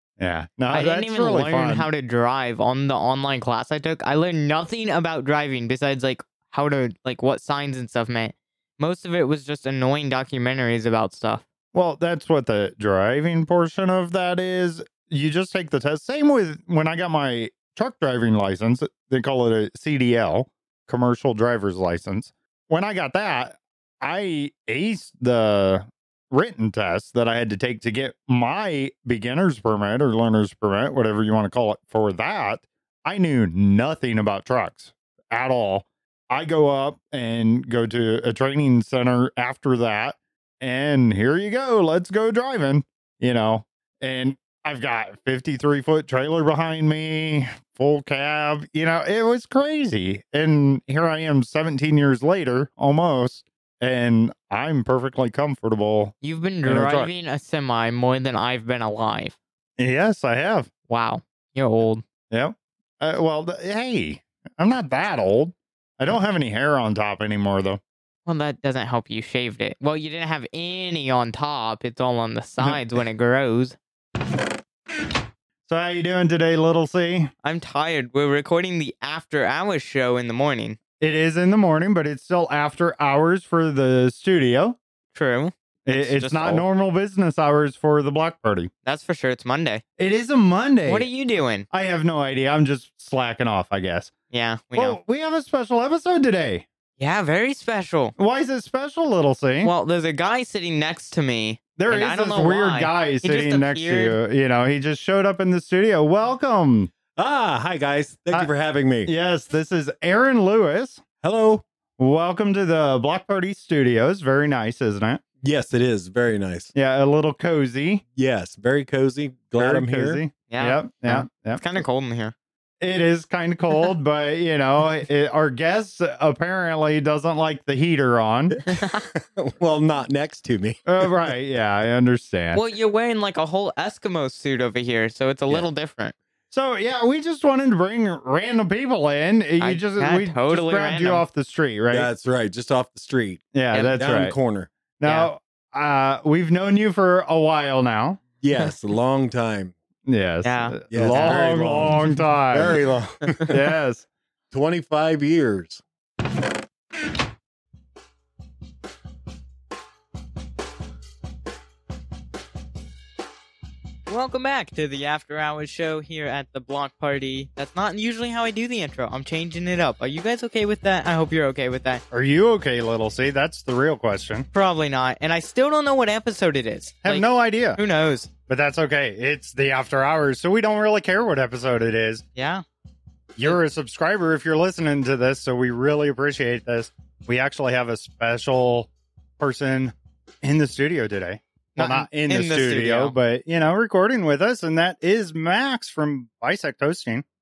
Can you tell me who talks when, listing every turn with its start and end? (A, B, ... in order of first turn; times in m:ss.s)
0:00.2-0:01.9 A
0:00.7-0:11.4 B
0:11.7-0:56.1 A
0:56.2-0:59.4 B
0:56.6-0:57.1 A
0:59.8-1:00.7 A
1:00.9-1:02.0 B
1:02.3-1:07.8 A
1:08.3-1:13.8 B
1:15.7-1:17.3 A
1:17.4-1:20.8 B
1:21.0-1:24.8 A
1:25.1-1:26.6 B
1:25.8-1:28.7 A
1:28.8-1:29.8 B
1:30.0-1:31.1 A
1:30.9-1:31.7 B
1:31.7-1:34.1 A
1:34.3-1:35.0 B
1:34.7-1:36.6 A
1:37.0-1:38.1 B
1:38.2-1:39.7 A
1:39.6-1:44.2 B
1:41.8-1:46.9 A
1:47.1-1:49.1 C
1:49.0-1:51.0 A
1:51.2-1:51.6 C
1:52.0-1:55.2 A
1:55.4-1:56.7 C
1:56.7-1:58.0 A
1:58.2-2:00.2 C
1:59.6-2:01.6 A
2:00.5-2:02.3 B
2:02.8-2:08.6 A
2:08.7-2:09.1 B
2:09.4-2:11.1 C
2:10.8-2:12.6 A
2:12.5-2:16.1 B
2:16.5-2:22.1 A
2:19.6-2:21.2 B
2:21.9-2:23.4 C
2:23.5-2:24.4 A
2:24.0-2:24.7 C
2:25.0-2:28.2 A
2:25.0-2:25.3 B
2:28.4-2:29.7 C
2:30.0-2:32.8 A
2:30.4-2:31.4 B
2:30.9-2:33.6 C
2:33.5-2:34.0 A
2:34.5-2:35.8 C
2:44.1-2:52.0 B
2:52.1-2:54.5 A
2:54.5-2:58.3 B
2:57.0-2:57.8 A
2:58.5-3:02.2 A
3:02.3-3:02.6 B
3:03.4-3:17.2 A
3:11.8-3:13.1 B